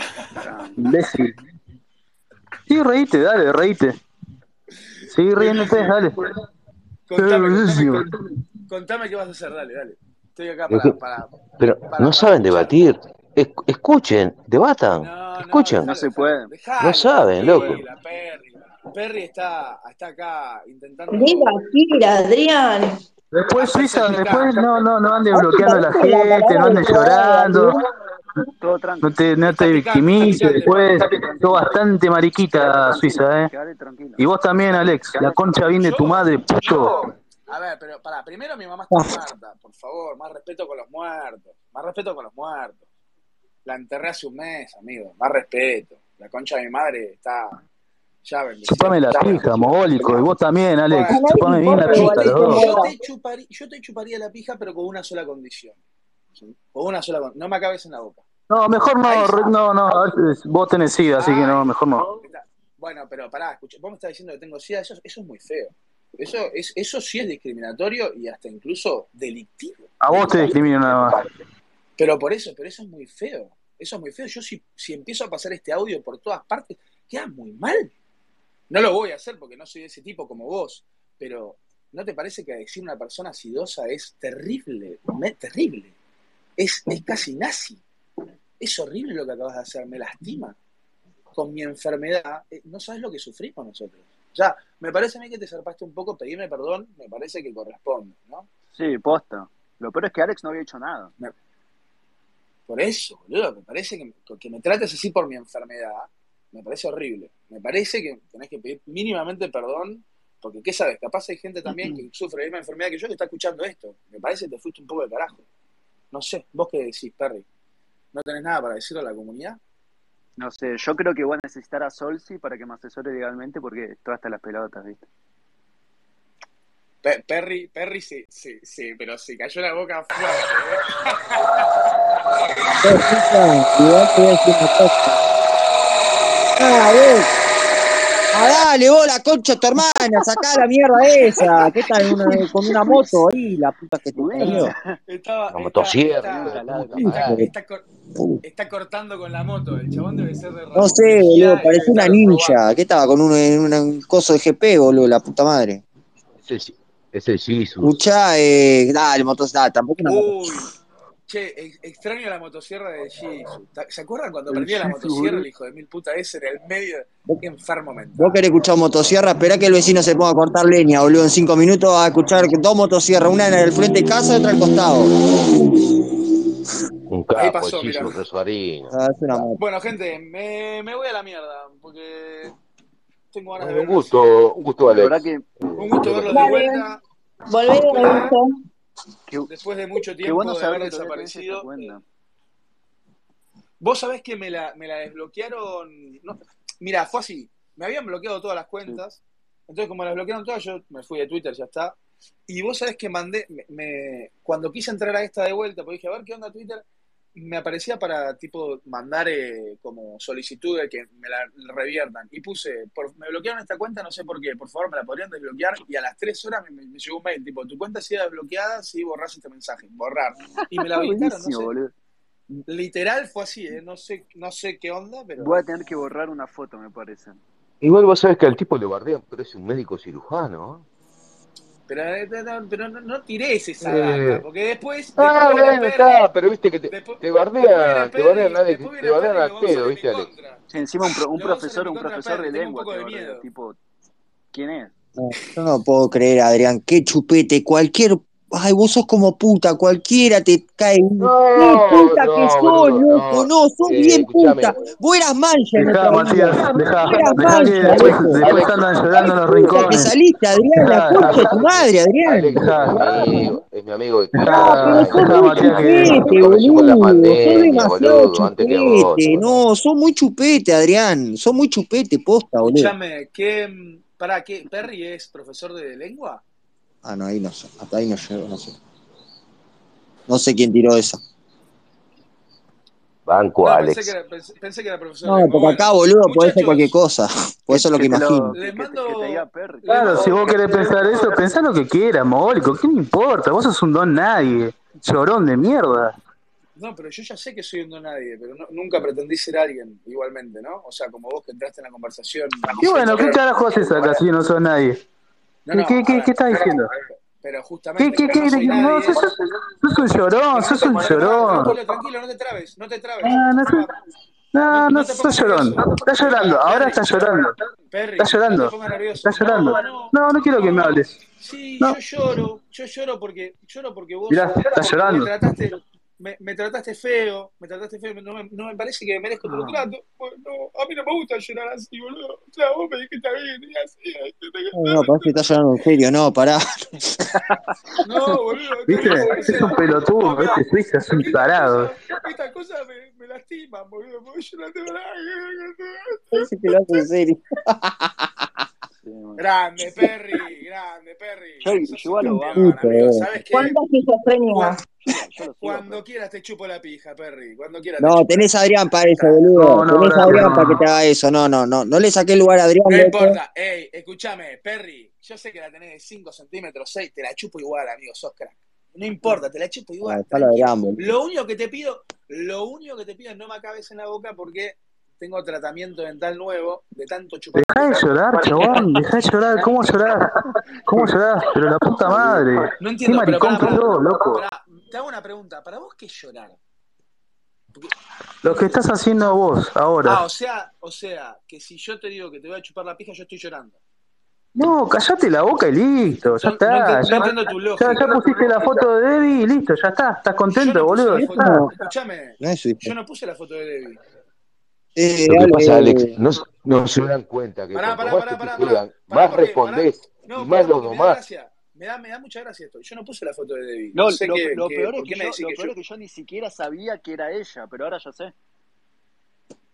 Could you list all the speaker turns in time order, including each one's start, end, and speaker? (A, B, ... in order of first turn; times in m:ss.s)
0:00.4-0:00.8 A
0:00.8-0:01.3 B
0:02.7-0:04.0 B
0:05.1-0:06.2 B
0:05.4-0:06.0 C
0:07.1-0:08.1 C
0:07.2-0:08.0 B
0:08.7-0:12.9 C
0:10.7-0:11.0 D
0:11.6-0:15.9 D
0:15.0-0:21.6 C
0:15.8-0:16.5 A
0:16.8-0:17.8 D
0:21.1-0:23.0 E
0:23.3-0:27.8 B
0:23.5-0:24.7 C
0:25.3-0:27.8 E
0:28.6-0:29.2 A
0:29.0-0:33.5 B
0:29.4-0:31.7 C
0:31.0-0:31.7 A
0:32.5-0:34.2 A
0:34.2-0:37.0 B
0:35.1-0:35.4 A
0:35.8-0:42.8 C
0:38.9-0:39.2 F
0:43.6-0:47.6 C
0:48.2-0:50.3 C
0:48.6-0:52.7 B
0:50.9-0:55.8 C
0:51.2-0:52.9 E
0:56.4-0:58.2 C
0:58.5-1:02.0 B
0:59.0-0:59.6 C
1:01.2-1:11.2 C
1:10.0-1:11.2 B
1:12.0-1:17.9 C
1:18.7-1:25.9 C
1:26.6-1:27.8 C
1:28.6-1:30.6 C
1:31.3-1:38.5 C
1:38.8-1:41.1 A
1:42.7-1:55.4 C
1:56.1-1:57.4 C
1:58.1-1:59.6 C
2:00.4-2:05.0 A
2:07.0-2:10.8 C
2:12.8-2:15.1 F
2:16.6-2:17.3 F
2:18.3-2:24.7 F
2:24.1-2:24.7 A
2:24.4-2:27.8 C
2:25.5-2:27.4 D
2:26.4-2:27.1 A
2:27.0-2:27.5 F
2:28.2-2:28.4 F
2:28.4-2:32.6 C
2:30.7-2:35.8 F
2:36.4-2:38.0 D
2:37.8-2:40.7 F
2:40.0-2:40.7 C
2:41.3-2:48.4 C
2:48.2-2:55.1 F
2:57.1-2:58.9 D
2:57.3-2:58.2 C
2:58.9-2:59.6 F
2:59.6-3:02.5 C
3:03.3-3:04.2 C
3:03.6-3:06.4 D
3:04.9-3:05.4 A
3:05.8-3:07.0 C
3:06.3-3:06.8 E
3:07.5-3:08.5 E
3:07.7-3:08.3 C
3:09.5-3:11.9 C
3:10.2-3:12.0 A
3:13.8-3:22.0 C
3:22.5-3:26.8 C
3:27.4-3:41.7 C
3:40.8-3:41.9 A
3:42.7-3:45.6 C
3:45.4-3:47.4 A
3:47.8-3:50.8 D
3:51.9-3:56.3 C
3:53.8-3:54.4 D
3:55.2-4:00.3 D
3:56.9-4:00.6 C
4:00.7-4:03.8 A
4:01.3-4:03.4 C
4:04.5-4:04.9 A
4:05.2-4:18.6 F
4:11.2-4:14.8 D
4:15.8-4:20.1 B
4:17.9-4:19.9 D
4:19.7-4:23.6 F
4:20.7-4:21.5 B
4:21.2-4:29.6 D
4:22.6-4:23.4 B
4:24.3-4:26.2 B
4:24.4-4:32.9 F
4:32.6-4:36.4 C
4:37.0-4:38.7 F
4:40.3-4:41.2 F
4:43.2-4:44.1 D
4:43.6-4:46.9 C
4:45.2-4:48.6 F
4:47.7-4:50.5 A
4:48.5-4:51.4 C
4:49.9-4:56.1 B
4:56.8-5:04.2 C
5:02.8-5:05.0 B
5:05.6-5:09.2 C
5:05.7-5:06.9 B
5:08.0-5:11.8 B
5:10.5-5:13.9 C
5:13.2-5:13.9 B
5:14.5-5:17.5 B
5:14.7-5:35.3 C
5:18.2-5:21.2 B
5:24.3-5:25.3 B
5:29.4-5:29.8 B
5:34.7-5:36.6 F
5:38.0-5:47.0 C
5:38.9-5:41.9 B
5:46.3-5:48.3 F
5:49.0-5:49.4 A
5:49.4-5:53.8 C
5:51.6-5:52.8 A
5:52.2-5:53.3 F
5:53.5-5:54.8 E
5:54.5-5:54.8 C
5:55.0-5:56.0 A
5:55.6-5:58.5 C
5:58.0-6:03.4 F
5:59.1-5:59.4 C
5:59.6-6:00.8 B
6:02.9-6:18.9 C
6:10.0-6:11.1 F
6:17.5-6:20.3 B
6:19.6-6:19.9 C
6:20.8-6:24.4 B
6:22.8-6:26.6 C
6:28.4-6:30.2 B
6:28.4-6:28.8 C
6:30.0-6:33.8 C
6:34.6-6:41.6 B
6:36.3-6:38.8 C
6:40.5-6:44.0 C
6:41.1-6:41.7 F
6:42.4-6:42.9 F
6:45.0-6:46.1 F
6:45.3-6:51.2 D
6:47.7-6:55.7 C
6:53.9-6:58.3 A